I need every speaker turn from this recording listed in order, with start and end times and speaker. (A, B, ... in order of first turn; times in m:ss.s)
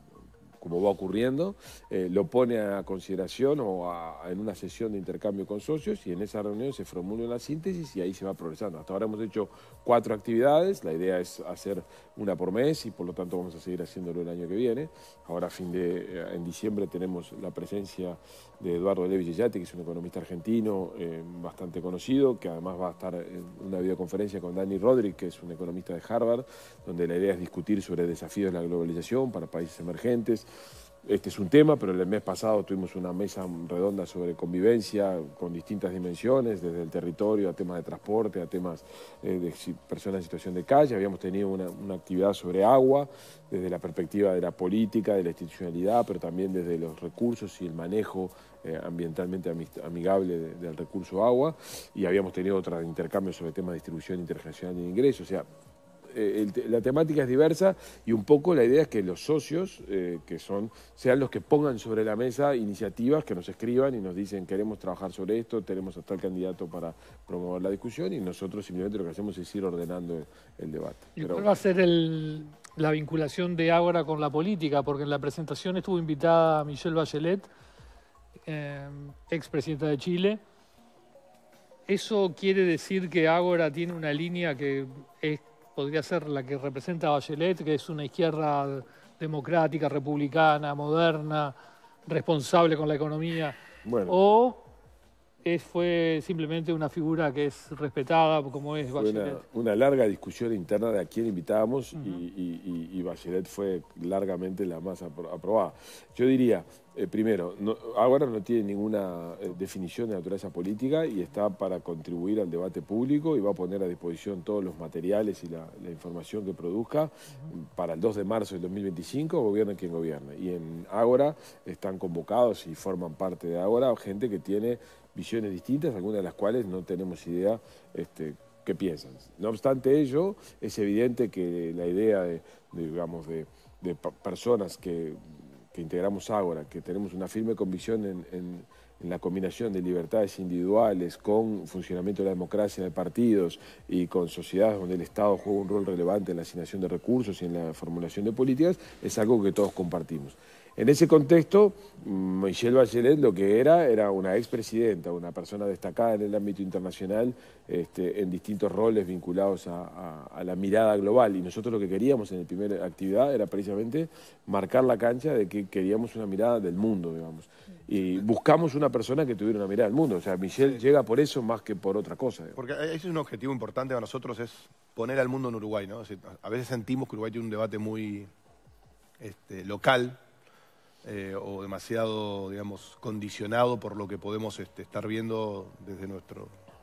0:00.6-0:30.5 A
0:31.0-0:55.5 A
0:56.1-1:11.5 A
1:11.2-1:17.5 B
1:18.4-1:20.4 B
1:21.9-1:31.5 B
1:32.0-1:33.6 B
1:33.8-1:34.2 A
1:34.1-1:34.6 B
1:35.4-1:39.4 B
1:38.9-2:15.2 A
1:41.9-1:42.2 B
2:15.7-2:52.6 A
2:52.6-2:58.3 C
2:59.2-3:00.2 C
3:01.0-3:06.5 C